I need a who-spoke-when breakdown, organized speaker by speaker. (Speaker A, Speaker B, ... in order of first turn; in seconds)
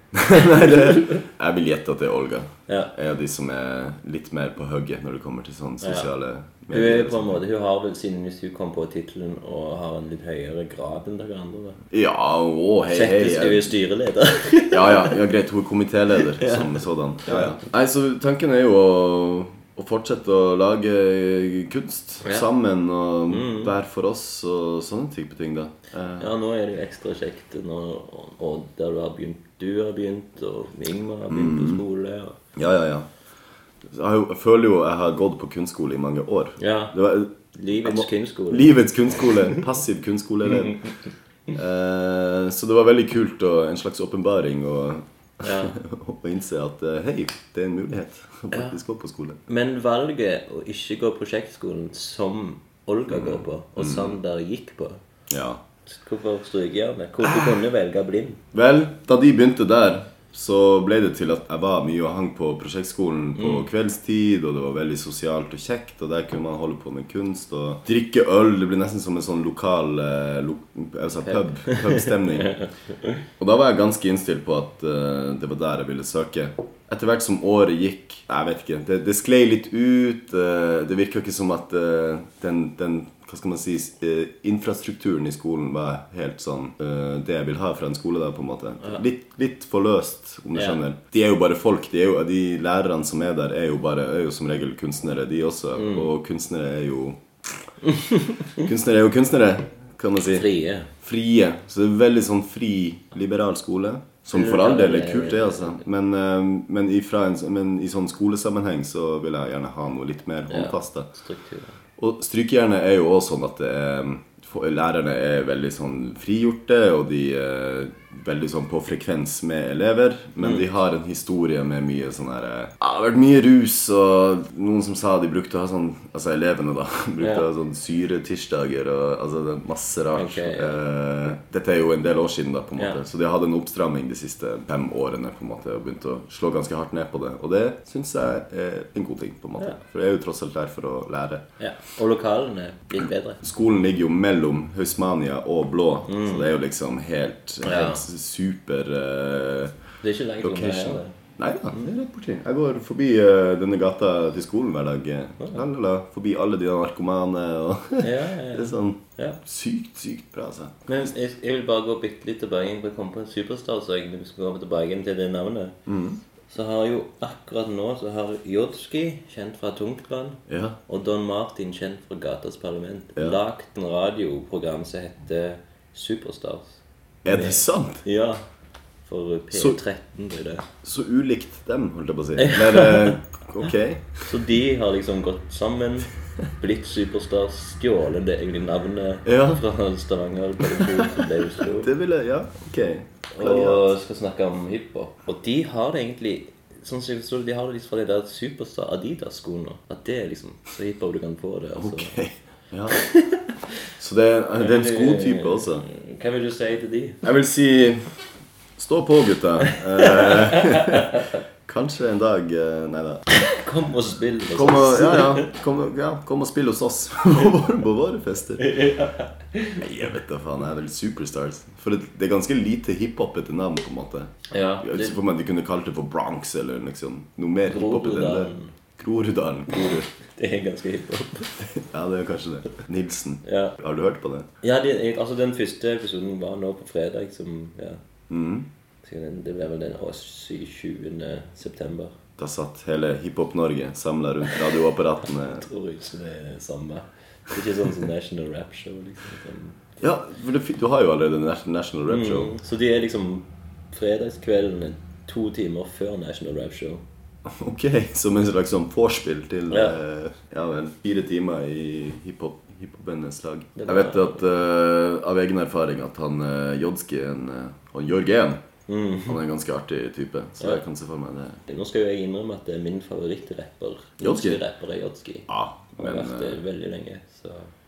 Speaker A: 0.1-7.4, 11.9-13.7, 14.7-26.3, 31.3-31.8, 32.6-33.1, 33.9-40.8, 41.5-49.4, 53.1-54.2, 55.3-55.6, 57.2-57.5, 58.5-72.5, 73.4-97.6, 98.5-111.1, 112.0-141.5, 143.4-149.8, 150.4-160.9, 165.9-166.2, 170.5-170.8, 177.2-178.0, 179.5-179.8, 180.8-184.3, 189.2-189.6, 190.7-193.9, 201.8-203.0, 204.0-205.9, 207.2-208.2, 208.8-213.3, 214.5-218.7, 219.8-230.1, 231.7-234.5, 238.3-238.7, 242.4-245.7, 250.0-252.5, 257.5-268.6, 269.3-271.6, 274.2-274.6, 275.5-276.6
Speaker B: 0.7-1.2, 2.7-2.9, 5.8-6.1, 6.7-11.8, 12.9-15.2, 16.4-17.6, 22.2-22.5, 23.3-23.7, 26.2-32.4, 36.6-37.0, 37.5-39.6, 40.5-40.9, 45.4-45.8, 48.5-48.8, 49.5-55.0, 55.9-58.4, 63.4-63.7, 71.2-72.7, 90.5-90.8, 95.8-96.1, 100.3-100.9, 104.3-105.8, 110.5-111.8, 127.2-127.5, 130.2-130.8, 141.6-143.4, 146.1-146.5, 147.6-148.0, 150.0-151.1, 158.0-159.4, 160.9-165.8, 166.5-178.4, 179.1-180.7, 182.4-183.2, 184.2-191.9, 193.3-202.1, 202.9-203.4, 204.6-207.2, 210.0-211.3, 213.3-215.5, 218.6-219.8, 224.5-225.2, 227.7-228.7, 230.3-231.6, 233.4-233.8, 234.6-238.0, 239.0-242.1, 245.4-249.8, 252.1-257.0, 259.7-260.0, 263.8-264.4, 268.9-269.4, 271.7-277.7